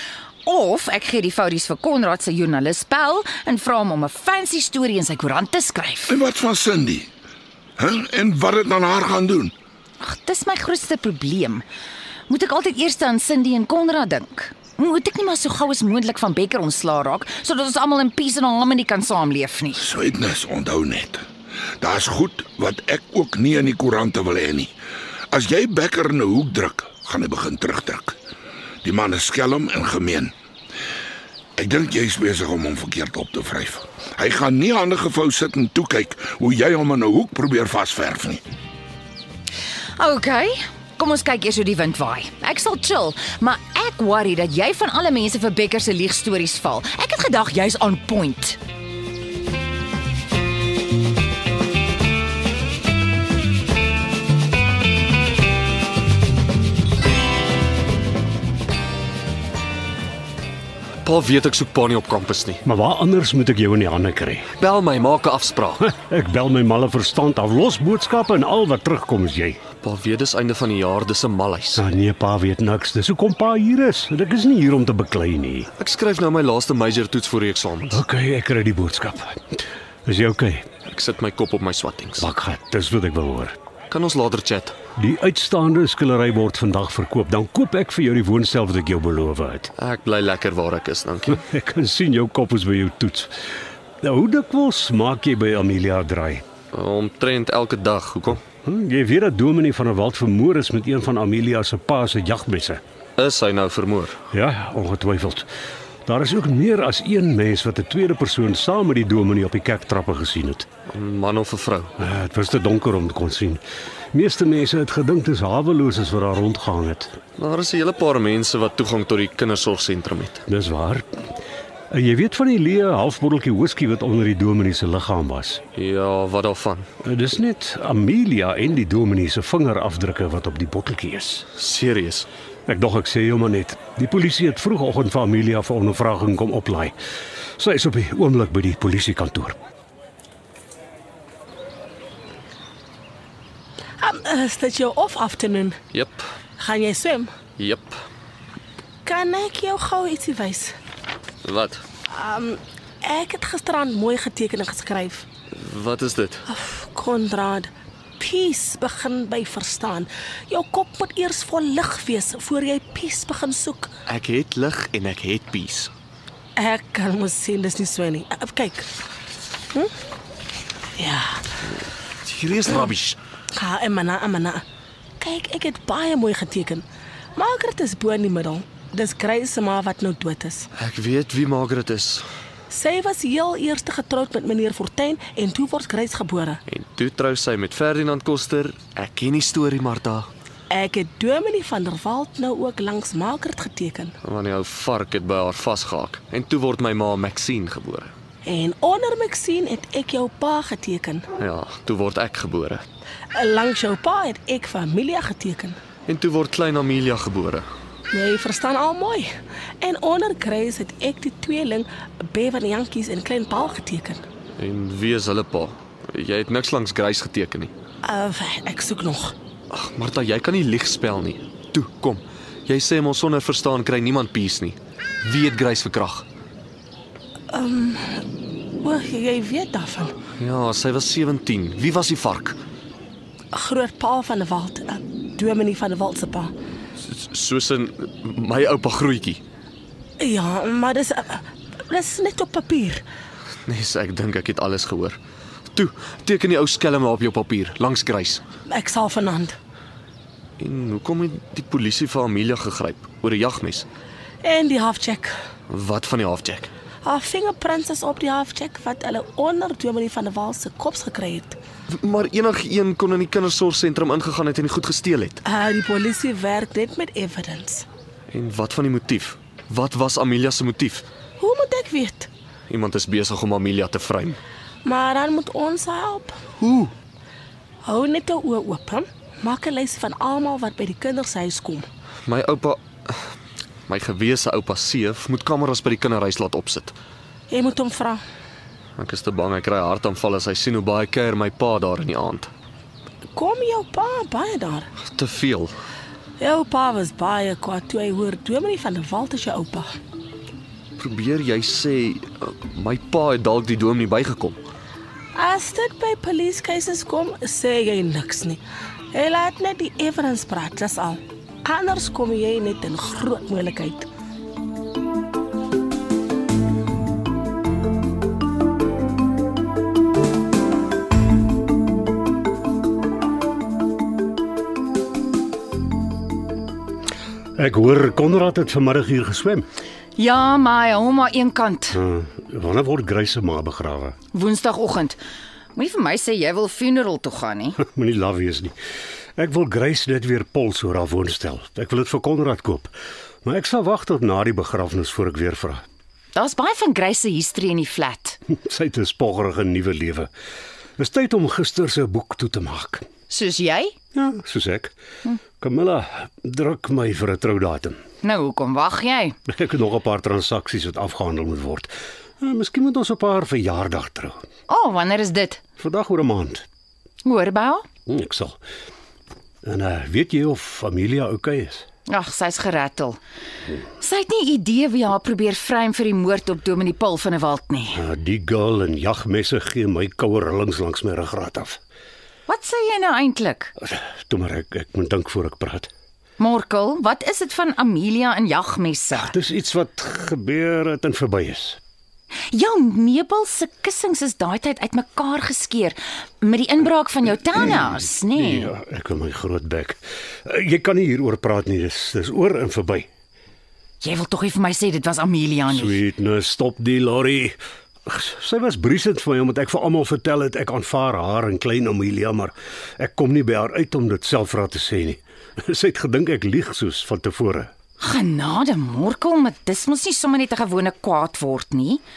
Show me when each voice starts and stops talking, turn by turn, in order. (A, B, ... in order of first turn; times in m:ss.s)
0:00.4-0:06.2 A
0:06.1-0:07.1 B
0:07.8-0:09.5 B
0:10.0-0:11.6 A
0:12.3-0:19.8 A
0:19.8-0:21.2 B
0:21.8-0:24.7 B
0:25.3-0:28.2 B
0:28.8-0:30.3 B
0:31.6-0:38.4 B
0:40.0-0:48.6 A
1:01.0-1:02.6 C
1:02.6-1:04.5 D
1:04.6-1:05.9 C
1:05.8-1:09.6 D
1:09.8-1:11.8 C
1:11.7-1:15.7 D
1:15.8-1:18.0 C
1:17.9-1:20.6 D
1:20.8-1:22.3 C
1:22.2-1:23.6 D
1:23.9-1:24.8 C
1:25.0-1:29.7 D
1:29.8-1:31.4 C
1:31.4-1:33.3 D
1:34.0-1:36.4 D
1:36.7-1:38.4 C
1:38.6-1:42.8 D
1:43.2-1:44.2 C
1:44.3-1:45.5 D
1:46.0-1:50.7 D
1:50.9-1:51.9 C
1:52.0-1:53.6 D
1:54.1-1:57.2 D
1:57.4-2:00.4 C
2:00.5-2:01.0 D
2:01.9-2:05.6 D
2:05.7-2:06.9 C
2:07.0-2:11.5 D
2:11.6-2:12.3 C
2:12.7-2:16.9 D
2:17.6-2:19.6 D
2:24.0-2:25.8 E
2:25.9-2:26.2 C
2:26.6-2:27.3 E
2:27.6-2:28.0 C
2:29.0-2:30.7 E
2:31.4-2:31.8 C
2:32.1-2:35.2 E
2:35.5-2:36.4 C
2:36.5-2:43.9 E
2:44.1-2:45.9 C
2:46.6-2:48.9 E
2:51.0-2:51.4 E
2:52.2-2:53.2 C
2:53.5-2:54.6 E
2:55.2-2:56.8 E
2:57.4-3:00.6 E
3:00.8-3:02.2 C
3:02.7-3:06.6 E
3:06.7-3:10.3 C
3:10.7-3:14.1 E
3:14.2-3:18.1 C
3:18.4-3:21.2 E
3:21.4-3:22.8 C
3:23.3-3:25.8 E
3:26.1-3:27.6 C
3:28.1-3:34.2 E
3:34.6-3:37.7 C
3:38.0-3:39.3 E
3:39.7-3:46.2 C
3:47.5-3:48.2 E
3:48.8-3:50.2 E
3:50.4-3:52.6 C
3:53.5-3:56.5 E
3:57.0-3:59.4 C
4:00.2-4:03.0 E
4:03.6-4:05.2 C
4:05.7-4:08.4 C
4:08.7-4:09.6 E
4:10.6-4:13.9 C
4:14.4-4:15.4 E
4:15.7-4:16.7 C
4:17.0-4:21.6 E
4:21.9-4:25.4 C
4:25.4-4:27.8 E
4:28.3-4:31.0 C
4:31.4-4:32.3 E
4:32.7-4:34.4 C
4:34.8-4:36.4 E
4:36.6-4:36.9 C
4:37.8-4:41.9 E
4:42.2-4:43.2 C
4:43.9-4:46.9 C
4:47.5-4:48.2 E
4:49.0-4:52.5 C
4:53.3-4:54.9 E
4:55.0-4:55.7 C
4:56.4-4:59.9 E
5:01.0-5:04.6 C
5:05.3-5:08.6 E
5:09.1-5:14.1 E
5:27.6-5:29.6 D
5:30.2-5:32.0 A
5:31.9-5:34.2 D
5:34.3-5:35.2 A
5:35.7-5:37.8 A
5:37.8-5:38.7 D
5:39.4-5:42.9 D
5:43.4-5:45.8 D
5:46.3-5:48.4 A
5:48.5-5:50.3 D
5:51.0-5:53.0 D
5:53.3-5:53.9 A
5:54.1-5:58.0 D
5:58.2-5:59.4 A
5:59.5-6:04.4 D
6:04.7-6:05.6 A
6:05.8-6:06.6 D
6:07.2-6:07.8 A
6:08.1-6:08.6 D
6:09.6-6:11.8 D
6:12.1-6:13.2 A
6:14.0-6:18.0 A
6:17.9-6:21.8 D
6:22.5-6:23.7 A
6:23.8-6:25.9 D
6:26.4-6:29.3 A
6:29.1-6:31.8 D
6:32.5-6:38.7 A
6:37.5-6:43.1 D
6:44.0-6:46.0 A
6:45.7-6:57.7 D
6:58.0-7:02.0 A